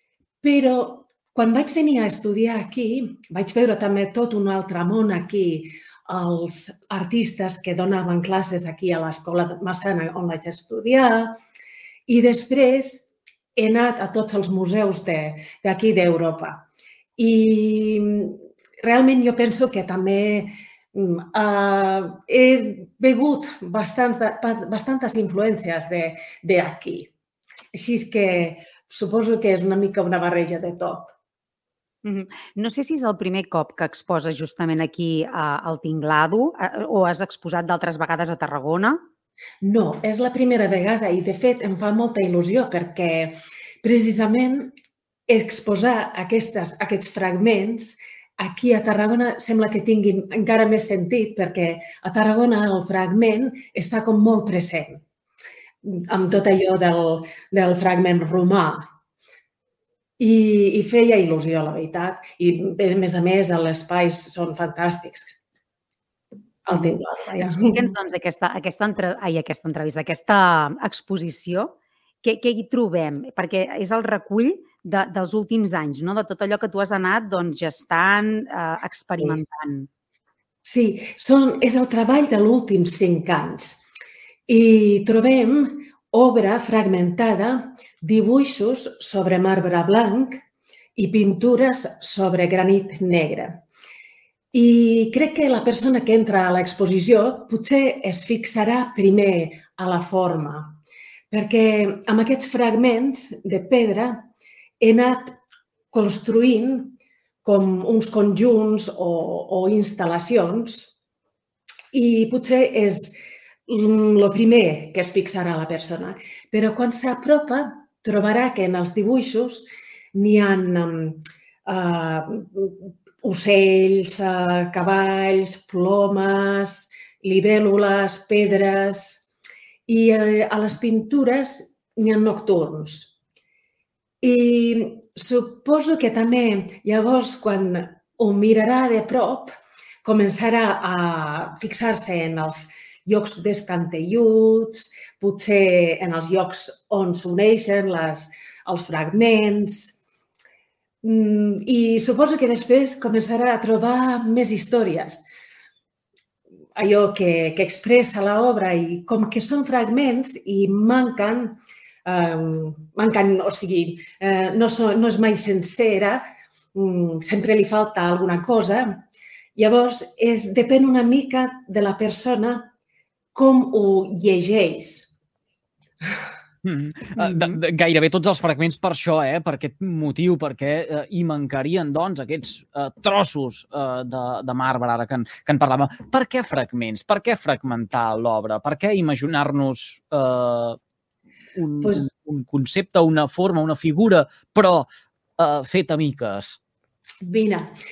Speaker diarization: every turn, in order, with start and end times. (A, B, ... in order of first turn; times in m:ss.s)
0:00.4-0:11.3 A
0:12.1-0:16.6 A
0:17.2-0:27.1 A
0:27.7-0:31.1 A
0:32.0-0:39.0 B
0:39.6-0:44.7 A
0:45.3-0:55.0 A
0:55.8-0:58.8 A
1:00.2-1:05.4 A
1:06.6-1:07.9 A
1:07.4-1:19.9 B
1:20.6-1:23.8 A
1:24.5-1:30.4 A
1:31.0-1:33.6 A
1:34.5-1:40.8 A
1:41.3-1:44.2 A
1:44.8-1:45.3 A
1:45.9-1:50.9 A
1:51.9-1:53.2 A
1:53.7-2:09.3 A
2:09.9-2:13.1 A
2:14.2-2:30.0 A
2:31.0-2:35.2 A
2:36.7-2:46.2 A
2:46.7-2:49.0 A
2:49.6-2:52.7 A
2:53.3-2:55.1 A
2:56.6-3:10.8 C
2:57.2-2:57.5 B
3:11.6-3:16.6 C
3:17.2-3:17.7 A